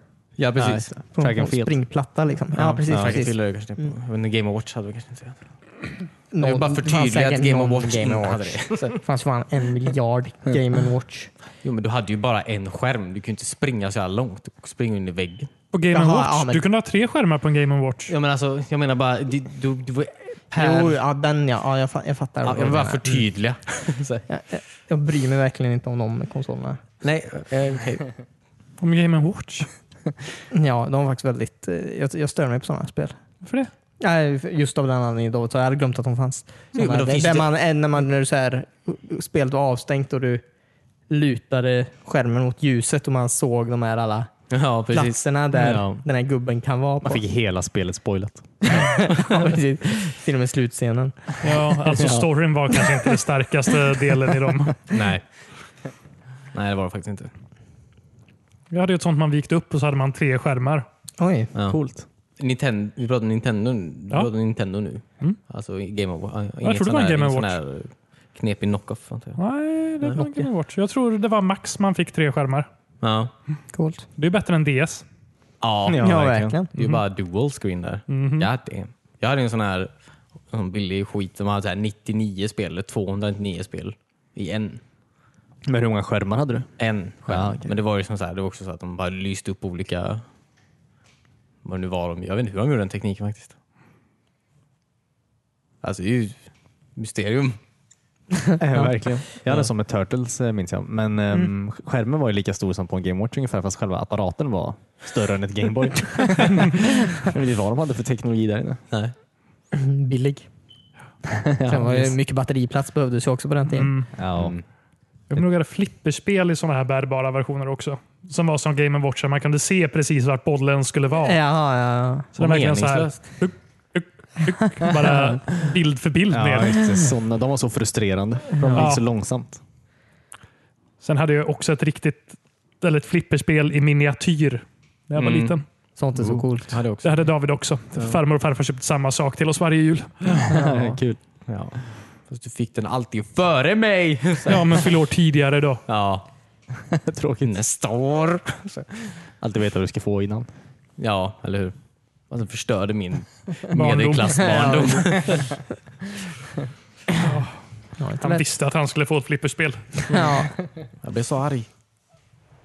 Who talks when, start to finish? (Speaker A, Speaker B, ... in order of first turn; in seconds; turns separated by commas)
Speaker A: 0.4-0.9, Speaker B: 0.6-1.8, Speaker C: 1.1-3.4, Speaker A: 2.5-5.4, Speaker B: 2.9-3.2, Speaker C: 6.3-11.3, Speaker A: 6.4-9.0, Speaker A: 11.6-15.5, Speaker D: 15.7-18.1, Speaker C: 15.9-16.6, Speaker A: 18.1-21.0, Speaker C: 20.5-23.2, Speaker A: 22.4-24.2, Speaker C: 24.3-26.8, Speaker A: 27.0-28.1, Speaker D: 28.8-29.7, Speaker C: 30.5-33.2, Speaker D: 33.4-33.7, Speaker C: 34.0-40.4, Speaker A: 36.7-37.5, Speaker C: 41.1-44.3, Speaker A: 44.5-45.2, Speaker C: 44.9-47.2, Speaker B: 45.5-46.0, Speaker B: 47.0-48.8, Speaker C: 48.7-51.4, Speaker D: 51.4-54.9, Speaker B: 52.0-52.3, Speaker A: 54.9-55.2, Speaker A: 56.5-57.3, Speaker D: 58.7-60.9, Speaker C: 61.2-61.5, Speaker A: 61.5-61.8, Speaker B: 61.7-62.0, Speaker A: 62.4-69.4, Speaker D: 66.6-67.6, Speaker D: 69.4-72.7, Speaker C: 70.2-70.5, Speaker A: 73.0-73.3, Speaker C: 73.7-74.0, Speaker D: 74.2-75.0, Speaker A: 75.6-76.1, Speaker B: 75.9-76.6, Speaker C: 76.0-76.7, Speaker A: 76.7-79.9, Speaker D: 78.1-78.5, Speaker A: 80.5-84.8, Speaker B: 85.7-86.7, Speaker A: 86.8-90.2, Speaker B: 87.3-87.8, Speaker A: 91.6-93.5, Speaker A: 95.8-96.4, Speaker A: 97.0-97.6, Speaker B: 98.6-108.8, Speaker C: 109.7-110.5, Speaker B: 111.3-112.2, Speaker C: 111.7-113.9, Speaker D: 113.7-114.1, Speaker B: 114.1-114.5, Speaker A: 114.4-114.6, Speaker D: 115.3-121.4, Speaker C: 121.2-122.3, Speaker D: 122.4-127.0, Speaker A: 122.4-123.2, Speaker B: 126.3-129.6, Speaker C: 128.6-128.9, Speaker D: 128.7-129.0, Speaker D: 131.0-135.7, Speaker A: 135.2-135.6, Speaker C: 136.0-136.8, Speaker B: 136.2-136.5, Speaker A: 136.7-137.3, Speaker D: 137.0-140.6, Speaker B: 140.3-141.2, Speaker A: 141.5-141.8, Speaker A: 142.3-144.9, Speaker D: 144.5-145.8, Speaker A: 145.9-146.3, Speaker B: 146.8-147.6, Speaker A: 147.4-148.9, Speaker B: 149.4-150.5, Speaker A: 151.0-151.8, Speaker A: 152.3-155.6, Speaker D: 153.7-154.7, Speaker C: 154.4-155.5, Speaker D: 157.2-157.6, Speaker C: 158.0-158.4, Speaker D: 158.2-160.3, Speaker C: 160.1-160.6, Speaker A: 161.0-161.7